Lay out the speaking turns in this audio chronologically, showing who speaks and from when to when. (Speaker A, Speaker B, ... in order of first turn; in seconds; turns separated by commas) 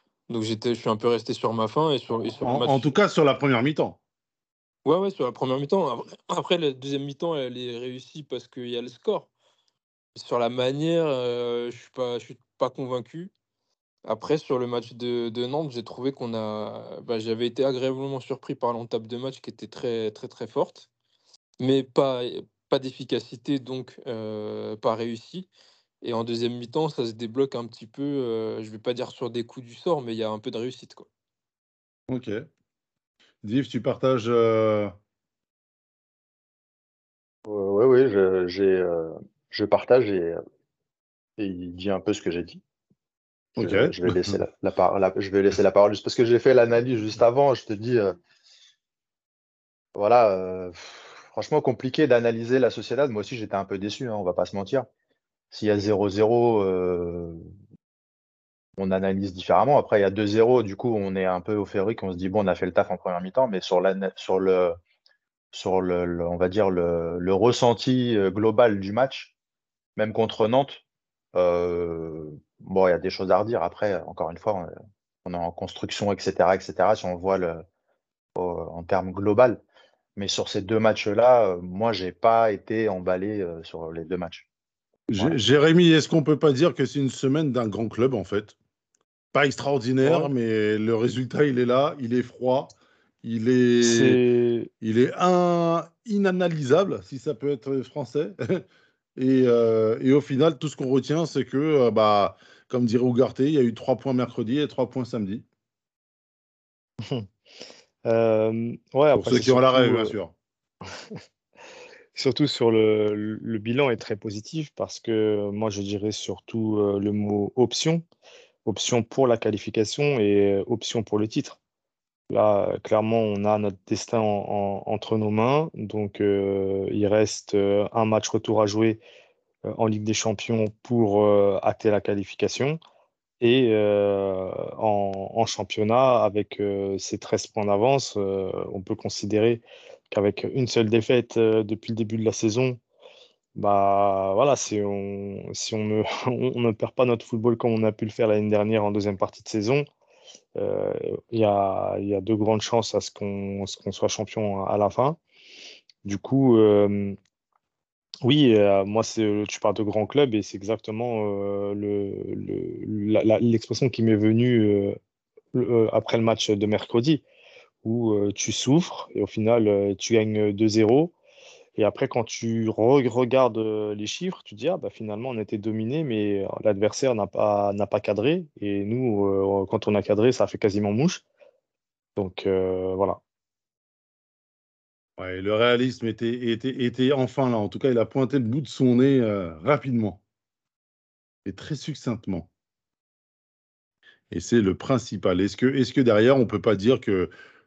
Speaker A: 0.3-2.9, Speaker B: 2.4-4.0, Speaker A: 4.8-9.3, Speaker A: 10.2-13.3, Speaker A: 14.1-20.9, Speaker A: 21.6-25.5, Speaker A: 26.0-31.1, Speaker B: 32.1-32.5, Speaker B: 33.4-34.9, Speaker C: 37.5-40.4, Speaker C: 41.4-42.6, Speaker C: 43.6-48.2, Speaker B: 43.6-44.4, Speaker C: 50.0-54.9, Speaker C: 55.5-57.4, Speaker C: 58.8-64.8, Speaker C: 65.5-69.3, Speaker C: 70.0-70.8, Speaker C: 71.3-74.7, Speaker C: 75.2-77.7, Speaker C: 78.4-79.6, Speaker C: 80.2-84.5, Speaker B: 85.1-88.6, Speaker B: 89.3-94.2, Speaker D: 93.8-94.7, Speaker B: 94.8-98.6, Speaker B: 99.2-105.4, Speaker D: 107.0-107.3, Speaker D: 108.0-110.2, Speaker B: 109.1-110.3, Speaker D: 112.1-118.0, Speaker D: 118.7-121.6, Speaker D: 122.3-129.0, Speaker D: 129.7-132.8, Speaker D: 133.4-142.8, Speaker D: 143.6-149.9, Speaker D: 150.6-155.2, Speaker D: 156.0-157.2, Speaker D: 158.2-165.0, Speaker D: 165.5-167.2, Speaker D: 167.8-171.1, Speaker D: 171.8-181.2, Speaker D: 182.2-183.2, Speaker B: 185.2-190.2, Speaker B: 191.5-192.5, Speaker B: 194.3-197.3